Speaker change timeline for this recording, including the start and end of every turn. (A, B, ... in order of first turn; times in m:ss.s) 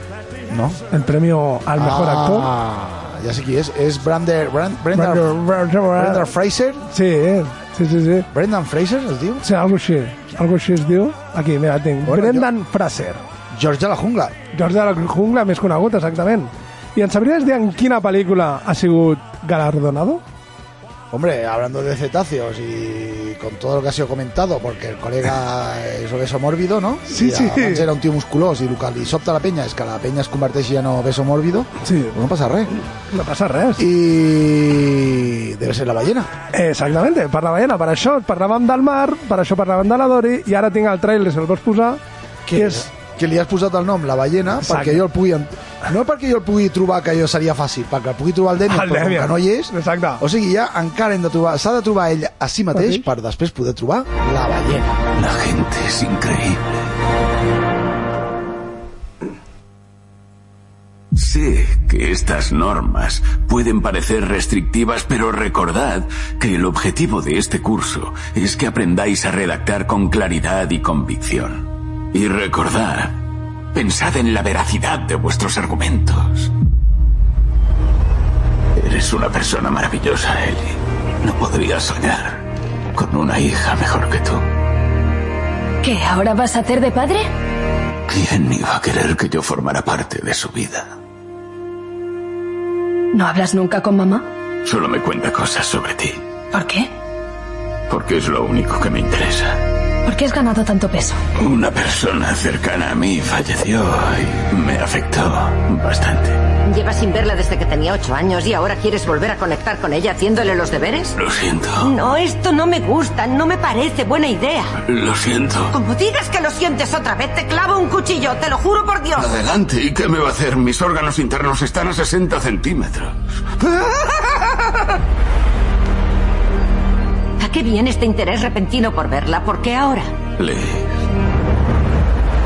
0:00.5-0:00.8 A
0:00.9-0:02.5 B
0:01.8-0:06.8 A
0:04.9-0:06.3 B
0:06.9-0:08.3 B
0:08.3-0:09.4 A
0:09.4-0:13.2 B
0:12.0-0:12.5 A
0:13.5-0:14.3 A
0:14.5-0:20.2 B
0:21.1-0:32.7 A
0:27.1-0:27.9 B
0:31.8-0:32.1 B
0:33.1-0:33.8 B
0:33.8-0:36.3 A
0:36.5-0:42.0 B
0:42.4-0:55.0 A
0:42.5-0:42.9 B
0:44.6-0:45.1 B
0:48.7-0:50.2 B
0:52.7-0:53.1 B
0:55.1-0:56.8 C
1:01.1-1:13.2 C
1:13.7-1:16.5 C
1:18.7-1:22.4 C
1:22.9-1:24.4 C
1:25.8-1:27.3 D
1:28.1-1:30.9 C
1:33.1-1:34.2 D
1:34.6-1:36.2 C
1:36.5-1:36.9 D
1:37.9-1:39.6 C
1:40.0-1:41.2 D
1:41.4-1:46.4 C
1:46.7-1:51.1 E
1:51.2-1:51.9 C
1:51.8-1:54.7 E
1:54.8-1:55.7 C
1:55.7-1:59.3 E
1:59.2-2:03.8 C
2:07.4-2:10.1 E
2:10.4-2:11.0 C